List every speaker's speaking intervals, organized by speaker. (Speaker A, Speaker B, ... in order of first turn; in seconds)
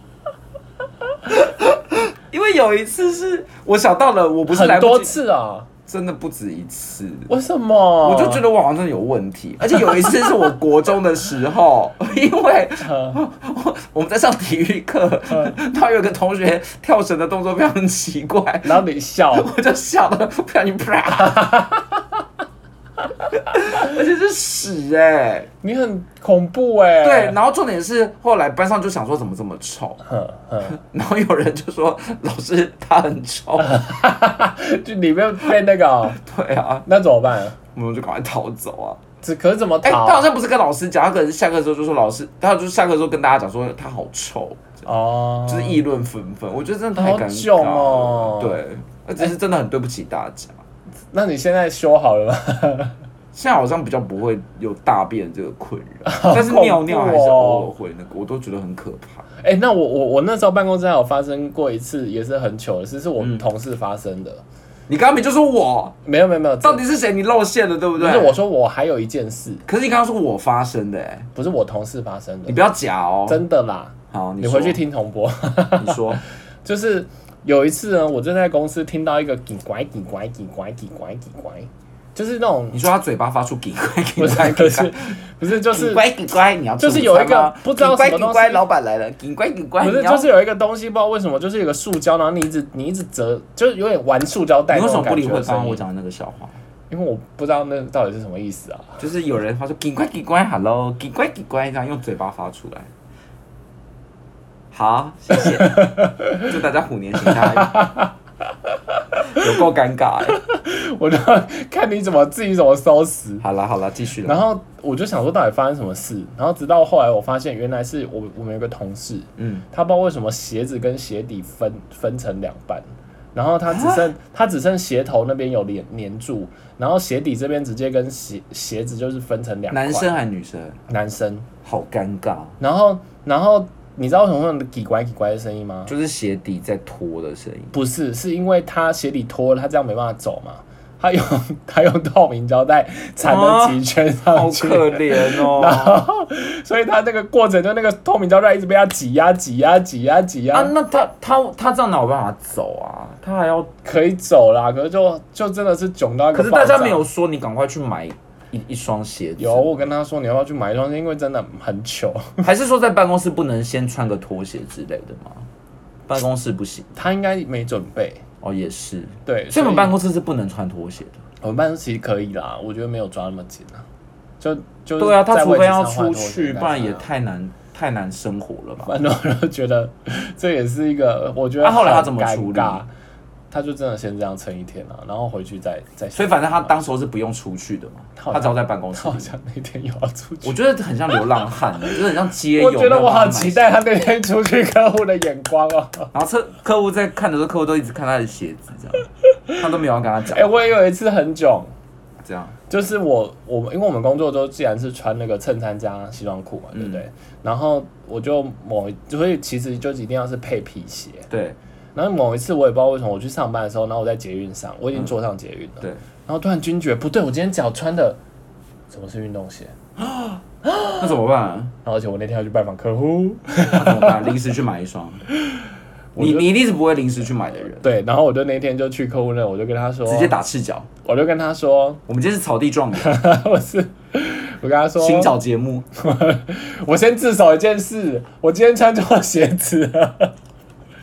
Speaker A: 1.3-5.2, 5.9-7.3, 8.0-21.5, 23.4-25.5, 27.0-30.0, 30.6-33.8, 36.1-36.9, 37.7-39.0, 39.8-44.9, 45.4-50.6, 53.3-59.2, 64.9-66.0, 66.6-68.4, 69.7-71.3, 72.5-73.4, 74.1-74.8, 75.8-76.2, 82.7-85.2, 85.7-90.3, 94.7-96.6, 99.0-102.9, 104.7-107.8, 109.4-110.4, 113.4-114.4, 119.4-119.7, 123.7-124.0, 129.7-130.8, 131.7-132.6, 135.9-137.8, 143.2-146.0, 150.5-153.7, 156.3-159.8, 162.4-165.5, 166.1-166.9, 168.4-171.2, 175.0-178.9, 181.6-182.8, 186.2-189.3, 190.4-193.8, 196.1-199.1, 199.6-200.5, 202.2-202.6, 206.7-207.0, 211.3-211.6, 220.0-220.4, 221.0-221.7, 223.7-225.2, 226.2-227.9, 230.1-230.9, 232.1-233.2, 235.0-235.9
Speaker B: 4.5-5.7, 7.3-8.4, 12.9-13.2, 18.6-19.5, 21.2-21.9, 25.6-27.4, 30.1-30.8, 33.6-36.2, 36.9-37.6, 39.2-40.3, 44.9-45.8, 47.0-48.6, 51.1-53.0, 56.1-57.7, 59.4-64.4, 66.0-66.8, 68.0-69.7, 71.3-72.6, 73.3-82.9, 84.2-86.0, 86.8-88.7, 89.8-95.8, 96.9-99.0, 105.4-106.5, 107.3-108.1, 110.4-113.4, 114.2-130.1, 130.9-131.5, 132.6-135.9, 137.7-150.7, 153.8-157.0, 159.4-162.5, 166.9-168.2, 169.3-170.0, 171.4-173.8, 174.4-177.1, 178.8-182.9, 183.5-186.8, 188.2-190.6, 192.5-196.1, 200.3-201.7, 202.7-211.3, 211.9-218.2, 218.9-219.7, 220.7-221.2, 221.8-224.3, 226.2-226.5, 227.8-230.4, 231.1-232.0, 233.0-235.3, 236.0-240.3